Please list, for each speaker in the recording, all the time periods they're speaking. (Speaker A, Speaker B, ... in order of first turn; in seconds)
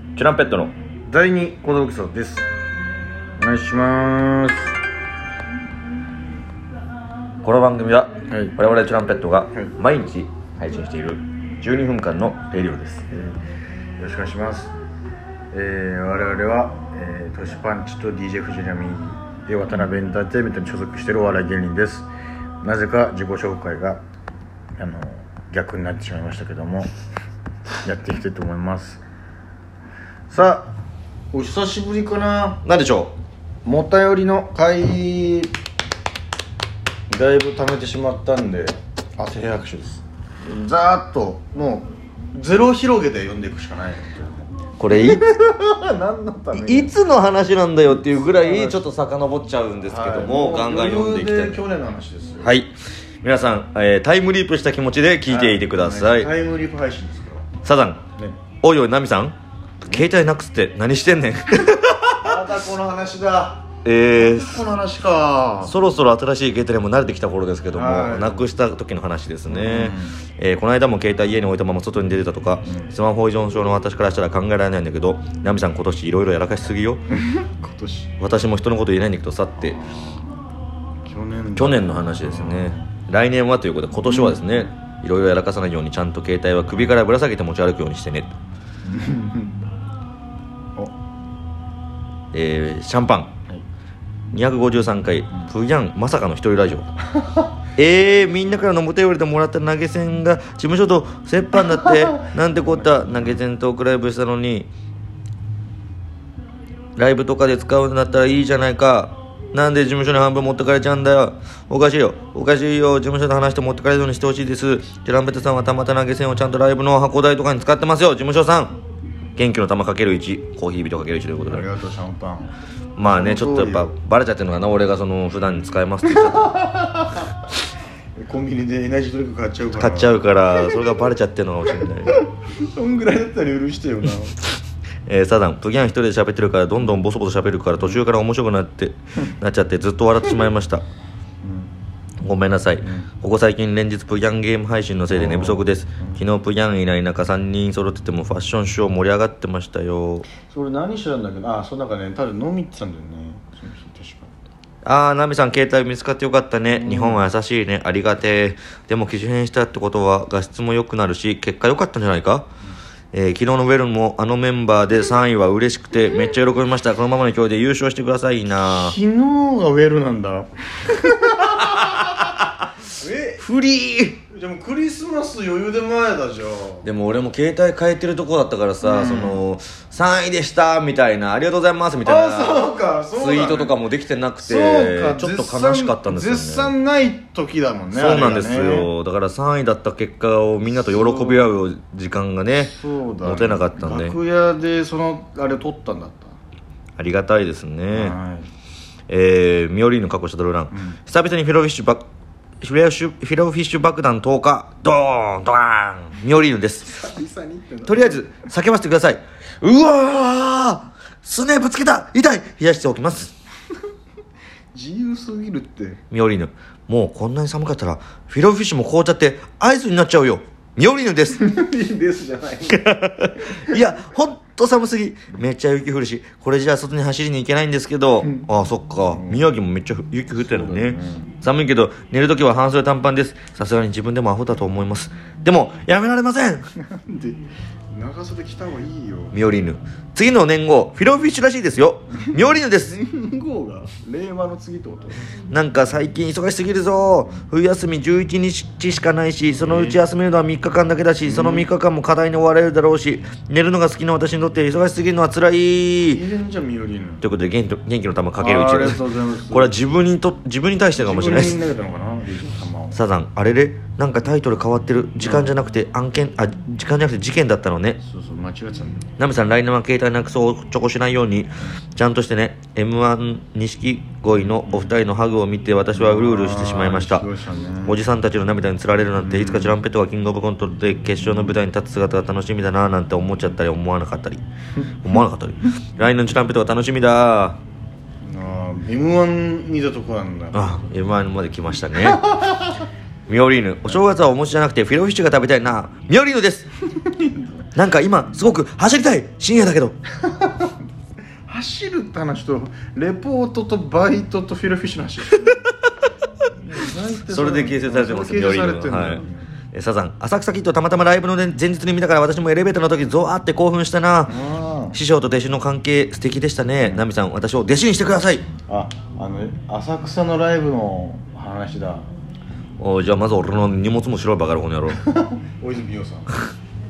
Speaker A: 0.1-0.7, 7.4-13.1, 32.6-33.1, 44.8-45.2, 46.5-51.6, 52.4-56.3, 57.6-58.0, 58.6-62.3, 63.8-64.7, 65.6-77.0, 78.2-79.8, 81.5-88.3, 92.3-93.3, 94.3-96.9, 97.8-104.7, 107.0-118.8, 119.3-121.7, 123.0-126.6, 129.8-132.1, 135.1-140.8, 142.2-150.3, 154.8-162.5, 163.1-168.9, 171.6-172.3, 173.4-174.2, 176.8-186.7, 187.9-194.2, 197.0-198.2, 199.1-202.0, 202.6-207.0, 207.9-213.3, 216.1-221.4, 222.7-236.7, 239.3-243.0, 245.5-256.2, 257.2-261.6, 262.9-268.0, 269.2-277.2, 277.8-284.4, 285.0-287.6, 290.5-292.3, 293.3-296.7, 297.7-299.9, 307.3-314.4, 314.9-318.5, 322.8-325.0
Speaker B: 1.1-2.4, 3.4-4.7, 8.3-8.6, 13.1-13.3, 14.0-14.7, 15.5-22.1, 22.6-24.0, 24.8-26.9, 27.8-29.0, 30.3-30.7, 31.3-32.6, 33.6-35.5, 37.1-46.9, 48.0-48.9, 49.8-52.5, 55.3-57.4, 62.2-65.8, 67.7-68.5, 69.5-70.2, 72.6-72.9, 77.1-78.1, 79.6-80.2, 81.0-82.8, 84.0-84.4, 88.8-89.5, 102.1-103.4, 121.4-123.9, 126.2-127.2, 128.2-130.9, 132.1-134.4, 141.4-141.7, 142.8-143.1, 145.1-146.2, 150.5-154.3, 156.7-157.2, 168.6-172.2, 173.0-173.4, 174.3-176.9, 178.8-179.4, 182.0-183.8, 184.4-188.9, 190.7-191.5, 192.5-196.3, 197.9-198.5, 206.9-208.3, 214.7-216.0, 221.3-222.9, 229.1-229.4, 230.4-231.3, 236.8-239.3, 242.8-245.2, 249.6-250.0, 251.2-251.7, 256.0-257.2, 258.4-259.7, 260.9-263.0, 265.2-265.5, 268.0-269.0, 275.9-278.0, 279.2-279.8, 288.2-290.9, 292.0-292.7, 297.0-297.5, 300.2-300.7, 301.5-305.6, 306.5-309.4, 314.3-315.0, 316.8-317.1, 318.7-322.1, 325.0-326.3